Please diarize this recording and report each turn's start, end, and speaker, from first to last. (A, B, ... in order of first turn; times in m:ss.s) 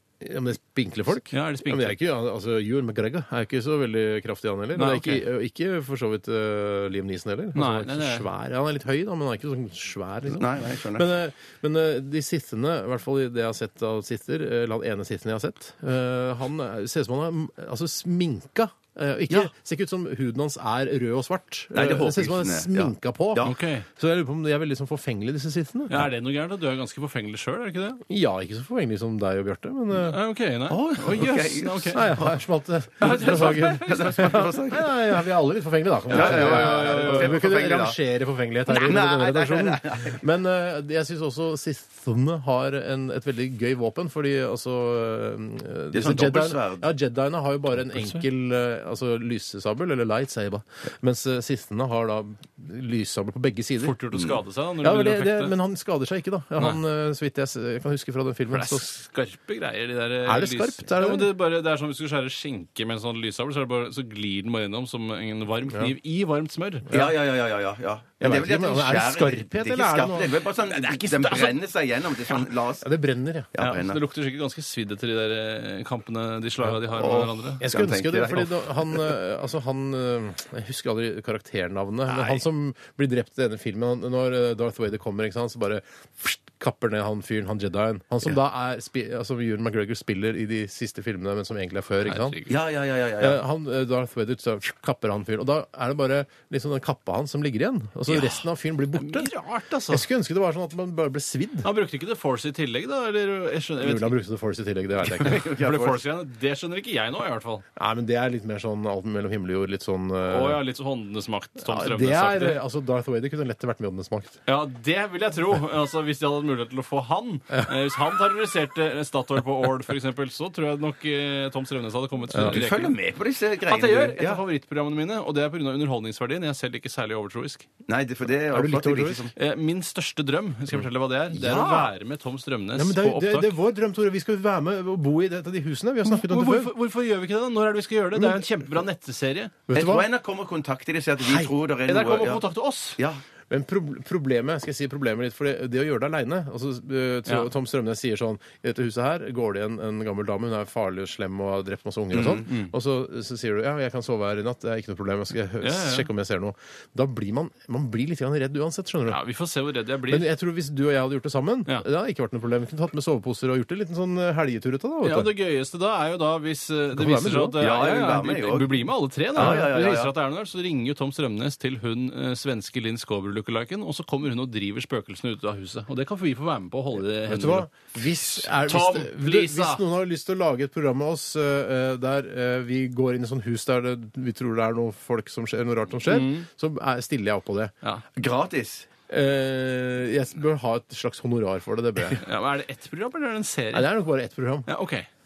0:00.2-0:26.1 A
0:01.3-0:02.0 B
0:04.8-0:05.2 B
0:07.6-0:08.3 B
0:10.3-0:11.1 C
0:21.7-0:23.6 C
0:23.4-0:23.9 B
0:25.9-0:28.0 B
0:28.1-0:30.2 A
0:29.9-0:32.2 B
0:30.7-0:32.4 C
0:31.9-0:54.0 A
0:33.0-0:34.5 B
0:33.0-0:35.0 C
0:36.1-0:37.4 B
0:36.1-0:38.0 C
0:38.7-0:40.2 C
0:45.9-0:46.9 C
0:53.8-0:55.5 B
0:54.8-0:58.9 A
0:58.5-1:06.9 B
1:00.2-1:01.3 A
1:06.9-1:12.9 C
1:08.2-1:10.4 A
1:10.7-1:11.6 B
1:12.8-1:13.5 A
1:13.5-1:14.0 C
1:13.6-1:17.6 B
1:17.0-1:19.1 C
1:17.6-1:32.4 A
1:32.1-1:32.5 B
1:32.5-1:33.4 C
1:33.2-1:39.3 A
1:38.1-1:38.4 B
1:39.0-1:40.0 B
1:39.9-1:41.7 A
1:41.6-1:44.2 B
1:43.8-1:45.4 A
1:45.0-1:47.6 B
1:45.2-1:46.0 C
1:47.8-1:50.6 A
1:50.2-1:52.6 B
1:51.6-1:54.4 A
1:54.5-2:03.0 B
2:02.3-2:02.6 A
2:02.4-2:04.4 C
2:03.7-2:07.7 B
2:07.9-2:09.3 C
2:08.5-2:09.3 A
2:09.4-2:13.6 B
2:11.4-2:11.9 C
2:12.8-2:16.7 A
2:16.0-2:19.6 B
2:18.2-2:18.5 A
2:19.7-2:20.1 A
2:19.7-2:23.2 C
2:21.2-2:21.5 A
2:21.9-2:23.0 B
2:23.5-2:39.2 A
2:32.1-2:32.4 C
2:32.2-2:32.7 B
2:35.6-2:36.1 B
2:39.1-2:40.3 B
2:40.1-2:45.3 A
2:45.0-2:59.8 B
2:46.9-2:47.6 A
2:47.6-2:50.1 C
2:49.4-2:49.7 A
2:57.2-3:07.7 A
3:06.1-3:06.5 B
3:08.2-3:08.9 C
3:09.1-3:12.2 A
3:12.2-3:13.9 B
3:13.7-3:14.7 A
3:14.7-3:15.1 B